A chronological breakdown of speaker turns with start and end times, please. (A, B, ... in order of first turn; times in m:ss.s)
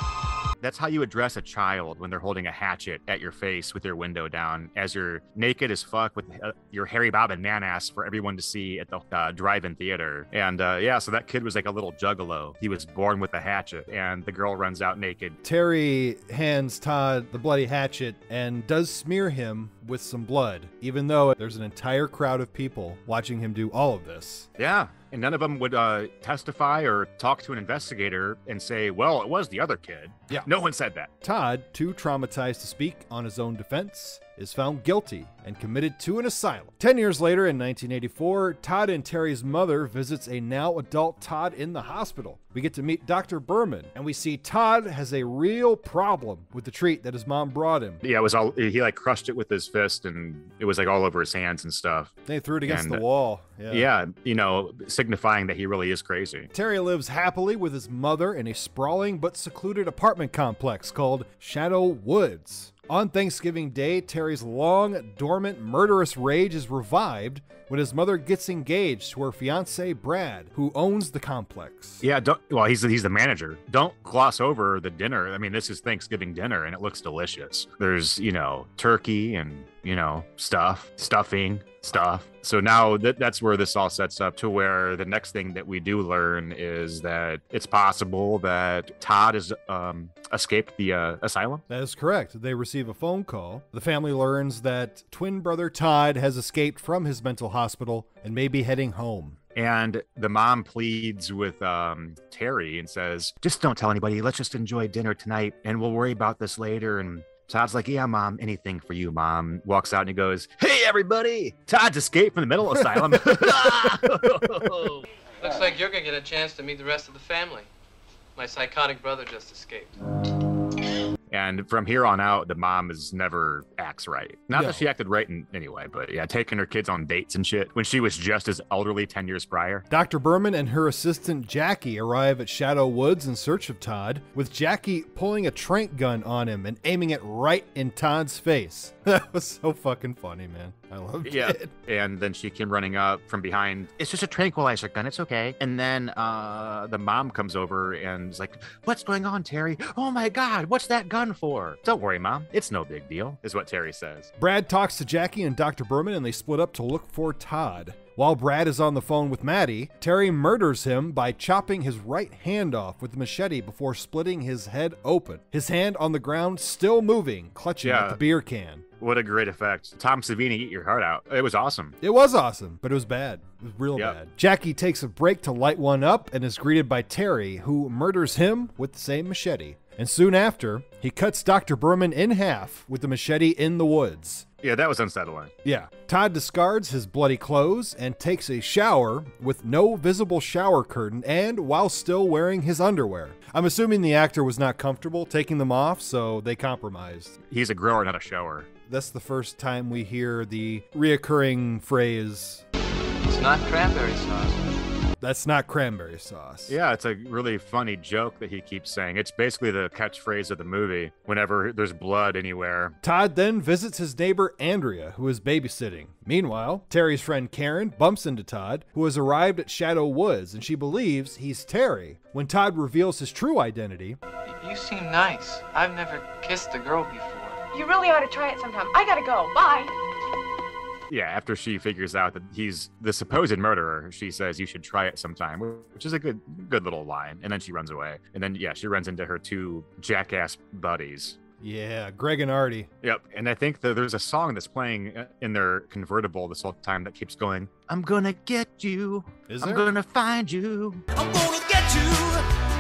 0:00.6-0:15.4 A
0:15.4-0:24.5 B
0:24.6-0:31.1 A
0:31.2-0:48.0 B
0:48.0-0:52.1 A
0:52.2-0:53.9 B
0:52.7-0:53.0 A
0:53.7-0:56.5 A
0:56.5-1:12.0 B
1:12.0-1:31.6 A
1:31.7-1:39.4 B
1:39.6-1:55.0 A
1:55.4-1:57.7 C
1:58.4-2:00.0 C
2:01.3-2:09.9 A
2:04.6-2:04.8 B
2:09.9-2:21.7 B
2:21.2-2:34.3 A
2:34.4-2:48.8 B
2:47.8-2:48.2 A
2:49.0-2:52.0 A
2:52.0-3:04.4 B
3:04.6-3:05.5 A
3:05.6-3:17.4 B
3:17.5-3:18.7 A
3:18.9-3:22.6 B
3:23.2-3:24.8 C
3:25.2-3:26.8 B
3:26.7-3:33.0 A
3:33.0-3:44.2 B
3:44.5-3:47.6 C
3:47.7-3:50.0 D
3:51.1-4:01.4 A
4:01.6-4:02.9 B
4:03.0-4:11.3 A
4:09.5-4:09.9 B
4:11.9-4:12.3 C